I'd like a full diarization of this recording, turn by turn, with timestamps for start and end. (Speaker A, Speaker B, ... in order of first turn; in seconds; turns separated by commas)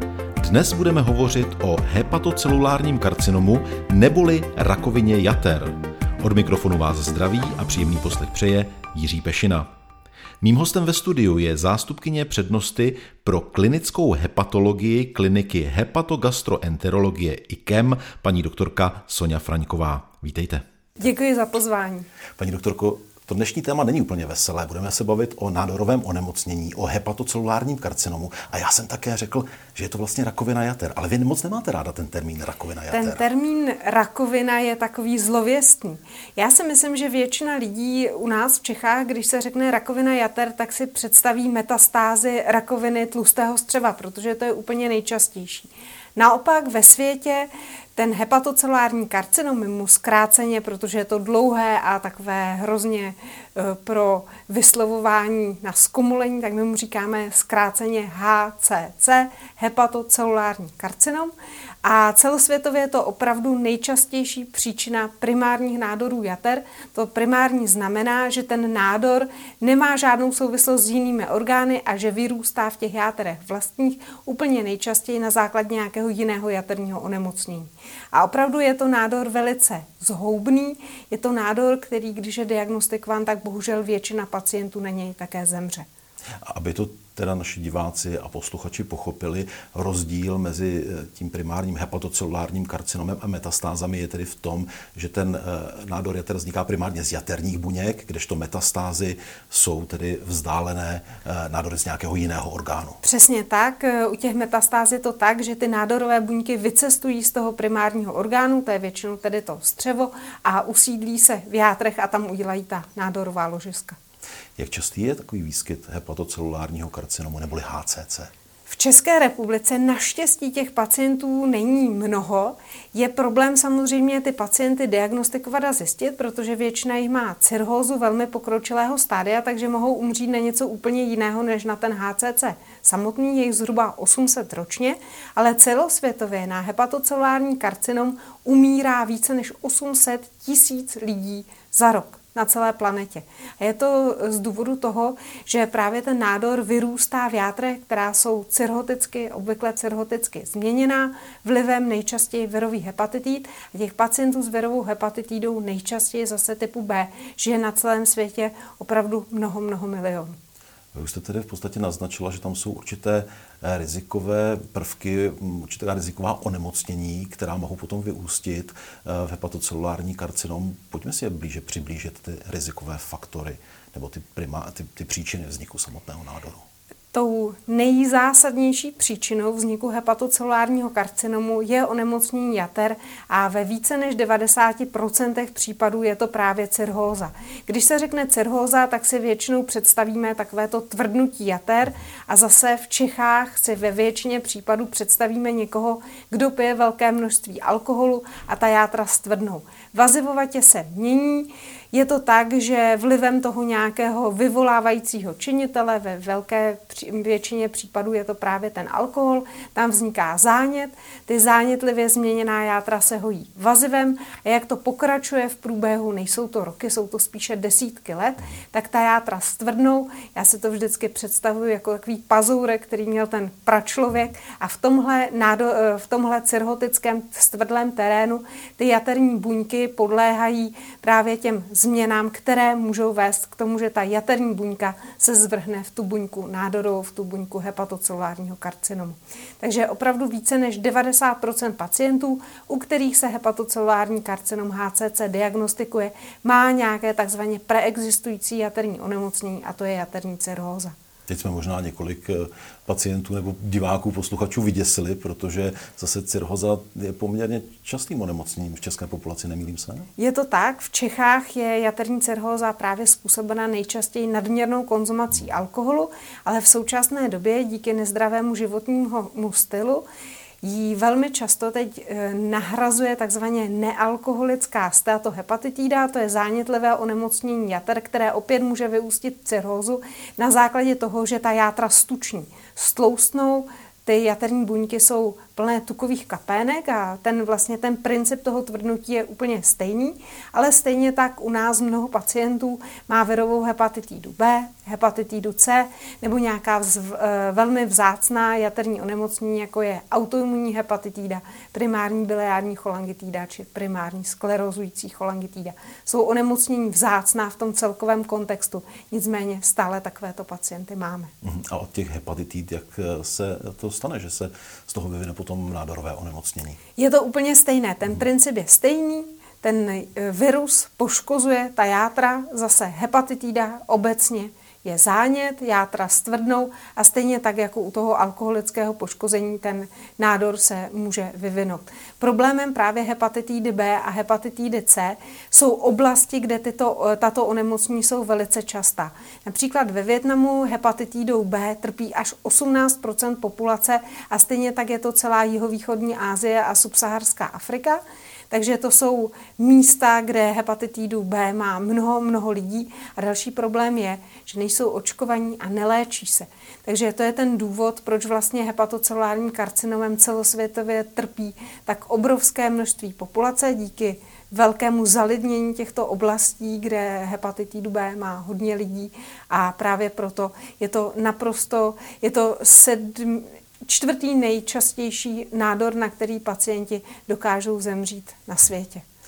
Speaker A: 0.4-9.7, Speaker A: 10.4-20.6, Speaker B: 21.0-22.1, Speaker A: 22.4-33.2, Speaker B: 32.9-85.9, Speaker A: 86.4-103.0, Speaker B: 103.0-114.0, Speaker A: 114.6-118.3, Speaker B: 118.7-160.3, Speaker A: 160.9-176.6, Speaker B: 177.1-250.9, Speaker A: 251.3-260.1, Speaker B: 260.2-270.0, Speaker B: 270.6-311.3, Speaker A: 311.4-316.8, Speaker B: 317.0-379.0